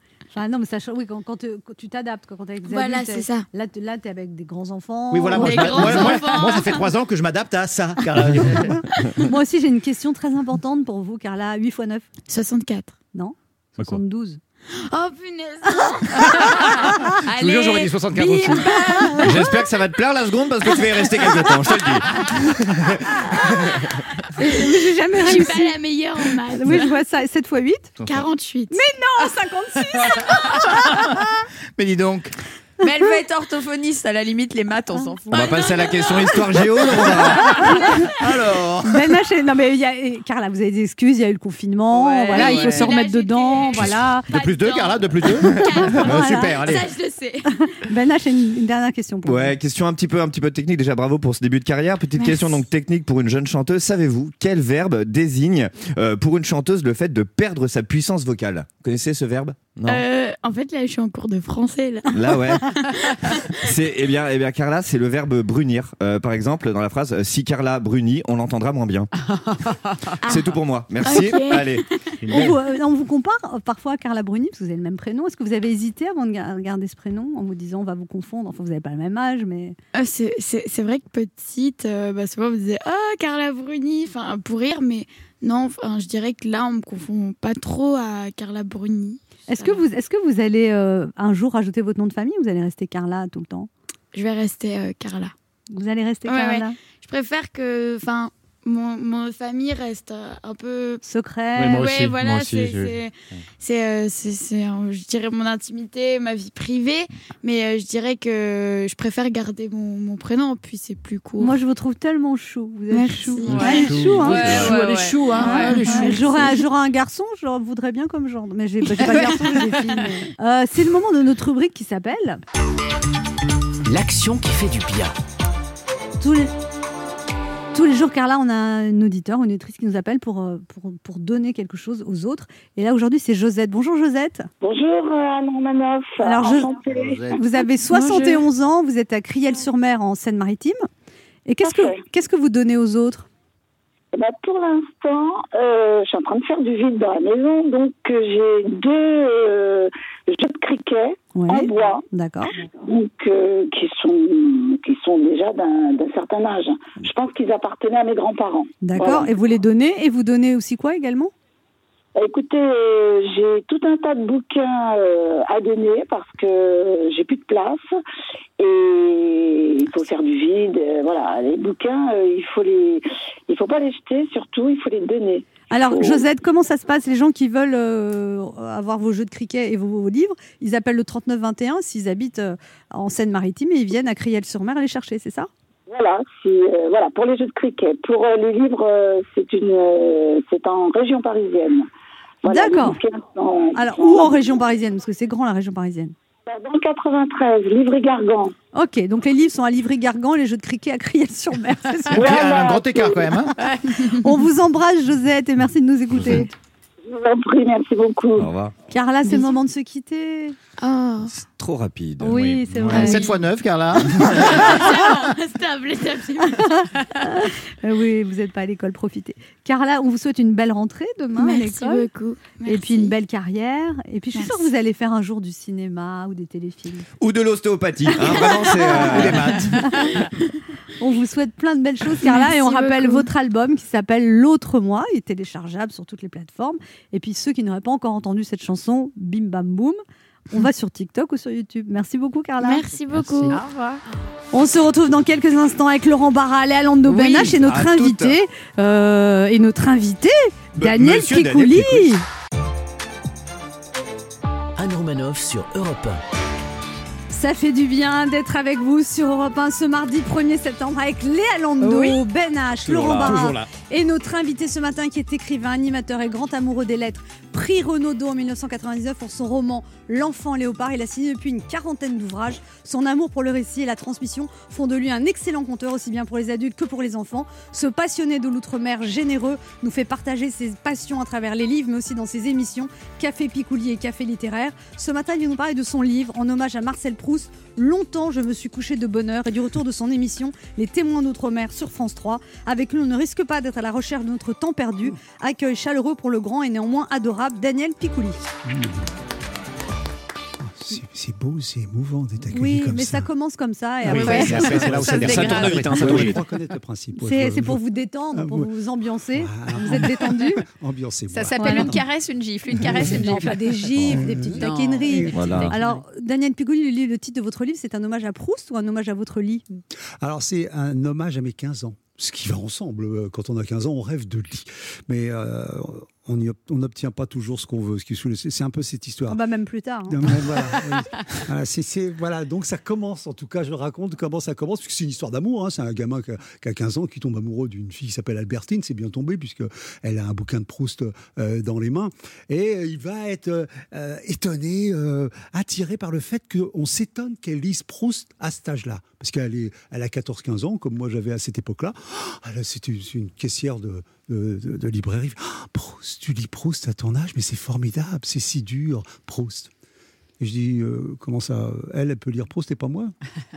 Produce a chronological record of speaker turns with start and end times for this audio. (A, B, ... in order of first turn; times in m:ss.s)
0:00.3-0:06.2 A
0:02.6-0:03.4 B
0:05.1-0:08.8 C
0:05.3-0:06.8 B
0:09.2-0:12.0 A
0:12.3-0:13.0 B
0:13.1-0:14.4 A
0:14.9-0:16.6 B
0:17.2-0:19.3 D
0:17.3-0:18.8 C
0:18.2-0:19.3 A
0:19.2-0:23.8 E
0:24.4-0:25.8 A
0:25.1-0:26.9 B
0:26.5-0:27.9 A
0:28.0-0:28.3 C
0:28.0-0:28.8 B
0:28.7-0:31.0 A
0:30.8-0:31.1 C
0:31.8-0:32.4 C
0:32.8-0:35.7 D
0:35.3-0:38.6 E
0:37.6-0:38.0 A
0:38.2-0:38.9 C
0:38.8-0:44.3 A
0:41.9-0:42.9 D
0:42.3-0:47.6 B
0:43.8-0:46.9 C
0:45.8-0:46.6 A
0:47.5-0:49.6 A
0:49.2-1:00.0 E
0:52.2-0:52.6 B
0:59.8-1:03.5 B
1:02.1-1:02.8 E
1:03.6-1:09.1 E
1:09.4-1:09.8 D
1:10.2-1:12.2 B
1:10.2-1:11.8 E
1:12.2-1:12.6 C
1:12.3-1:19.8 A
1:19.9-1:29.8 B
1:29.5-1:33.7 A
1:34.1-1:35.3 B
1:35.7-1:36.8 A
1:36.2-1:41.0 B
1:41.0-1:41.9 A
1:41.6-1:43.4 C
1:41.7-1:51.6 B
1:51.4-1:54.8 A
1:52.9-1:54.7 B
1:53.5-1:55.8 D
1:53.8-1:54.8 C
1:55.3-1:56.6 B
1:55.4-2:02.4 A
2:03.8-2:05.1 F
2:06.2-2:06.5 A
2:07.7-2:14.5 A
2:14.6-2:17.3 G
2:16.2-2:16.8 A
2:16.8-2:17.4 C
2:17.3-2:20.9 A
2:18.0-2:18.3 B
2:21.4-2:23.3 A
2:21.6-2:22.0 G
2:24.1-2:32.0 G
2:31.3-2:32.5 A
2:32.8-2:39.3 G
2:38.8-2:41.3 A
2:42.2-2:47.8 G
2:48.6-2:56.2 G
2:55.7-3:05.5 A
3:05.9-3:11.9 G
3:12.4-3:14.4 G
3:12.5-3:13.0 A
3:13.7-3:16.1 A
3:16.4-3:18.5 G
3:18.7-3:22.4 A
3:22.1-3:23.6 C
3:22.1-3:23.3 G
3:24.0-3:26.5 A
3:27.0-3:28.5 G
3:28.4-3:28.7 E
3:28.9-3:30.6 A
3:29.3-3:29.6 B
3:30.8-3:31.3 B
3:31.3-3:33.1 E
3:32.2-3:33.3 A
3:32.4-3:34.8 C
3:34.5-3:37.0 B
3:36.4-3:42.1 A
3:41.4-3:43.1 B
3:42.6-3:47.0 A
3:44.3-3:44.7 B
3:47.2-3:49.9 E
3:48.2-3:49.4 B
3:49.0-3:50.2 C
3:51.0-4:02.8 A
3:52.2-3:53.3 B
4:02.6-4:03.6 B
4:03.5-4:04.0 D
4:04.5-4:12.2 A
4:07.1-4:08.4 E
4:10.8-4:12.1 E
4:14.8-4:16.2 F
4:17.3-4:58.4 A
4:22.8-4:23.7 C
4:22.9-4:23.4 E
4:58.6-4:59.0 H
5:00.6-5:03.3 H
5:02.5-5:04.9 A
5:04.0-5:06.4 C
5:04.1-5:06.2 D
5:04.6-5:06.4 E
5:04.7-5:08.7 H
5:07.1-5:10.6 A
5:09.3-5:12.0 H
5:11.3-5:16.0 D
5:11.6-5:12.0 A
5:12.8-5:13.2 H
5:12.9-5:19.6 A
5:14.0-5:15.6 H
5:15.3-5:15.7 E
5:20.2-5:29.4 H
5:29.3-5:30.3 A
5:30.1-5:59.7 H
6:00.4-6:03.1 H